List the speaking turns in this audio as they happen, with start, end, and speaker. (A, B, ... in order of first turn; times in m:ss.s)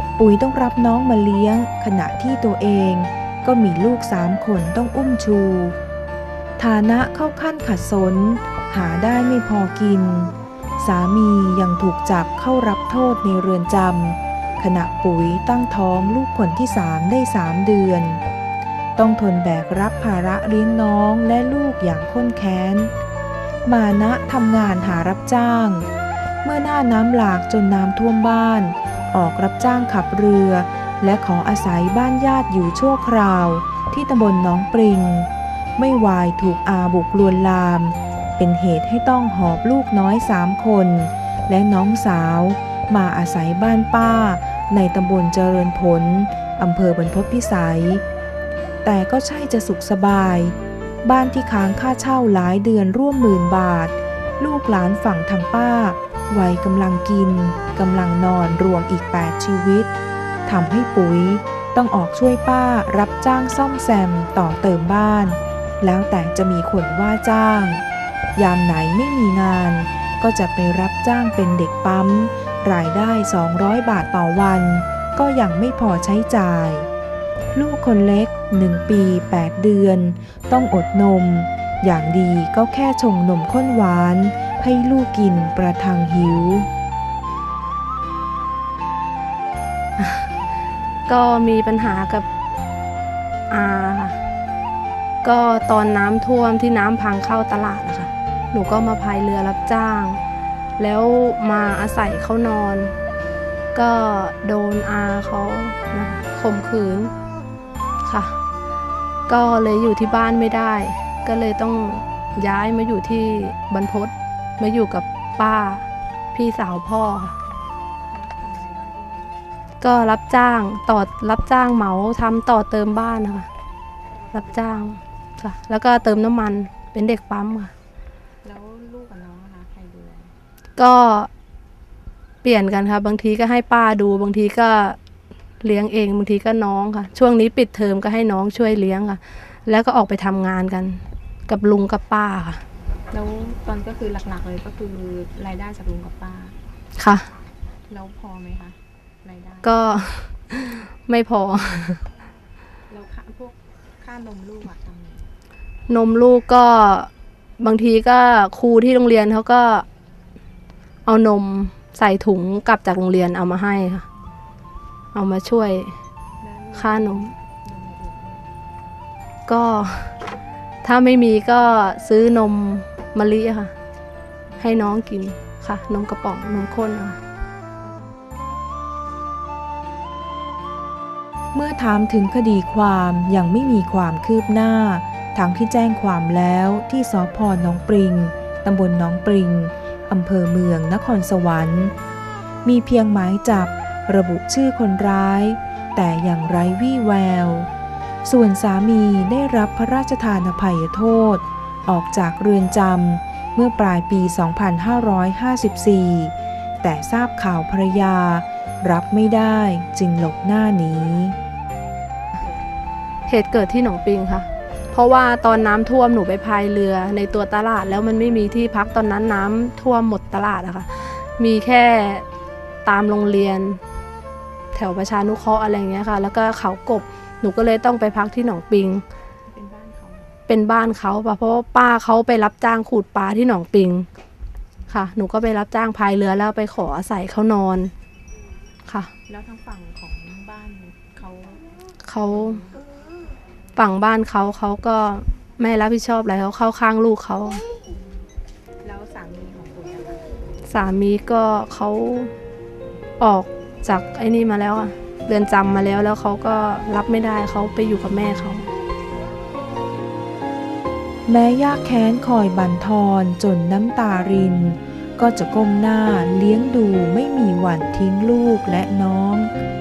0:00.2-0:05.8 A
0:06.6-0:18.2 A
0:19.0-0:22.9 A
0:23.6-0:25.9 A
0:26.4-0:48.0 A
0:48.8-0:59.9 A
1:00.5-1:07.8 A
1:08.4-1:16.9 A
1:17.6-1:26.7 A
1:30.0-1:30.3 B
1:31.1-1:32.2 B
1:33.5-1:34.2 B
1:35.2-1:40.2 B
1:40.8-1:43.0 B
1:43.7-1:47.1 B
1:48.0-1:48.4 B
1:49.3-1:57.4 B
1:58.1-1:59.3 C
1:59.8-2:03.5 B
2:04.3-2:07.7 B
2:08.4-2:10.3 C
2:10.8-2:11.3 B
2:12.4-2:15.0 B
2:15.6-2:22.6 B
2:23.1-2:26.6 C
2:27.0-2:27.3 B
2:27.9-2:29.9 C
2:29.6-2:32.0 B
2:32.9-2:35.3 C
2:35.9-2:39.9 B
2:41.1-2:44.0 B
2:45.1-2:46.0 B
2:46.4-2:48.5 C
2:46.7-2:47.3 B
2:49.5-2:50.2 B
2:50.8-2:53.7 B
2:54.6-2:57.2 B
2:57.8-2:58.6 C
3:01.5-3:11.9 A
3:12.6-3:17.7 A
3:18.2-3:31.4 A
3:33.3-3:42.2 B
3:42.8-3:43.8 B
3:44.7-3:49.0 B
3:49.5-3:50.4 C
3:50.5-3:54.1 B
3:54.9-3:57.9 B
3:58.9-3:59.1 B
3:59.3-4:01.7 C
4:02.0-4:02.7 B
4:02.3-4:02.8 C
4:03.8-4:07.6 B
4:07.9-4:08.3 C
4:08.8-4:10.3 C
4:10.7-4:12.3 B
4:13.2-4:18.7 B
4:21.3-4:29.5 A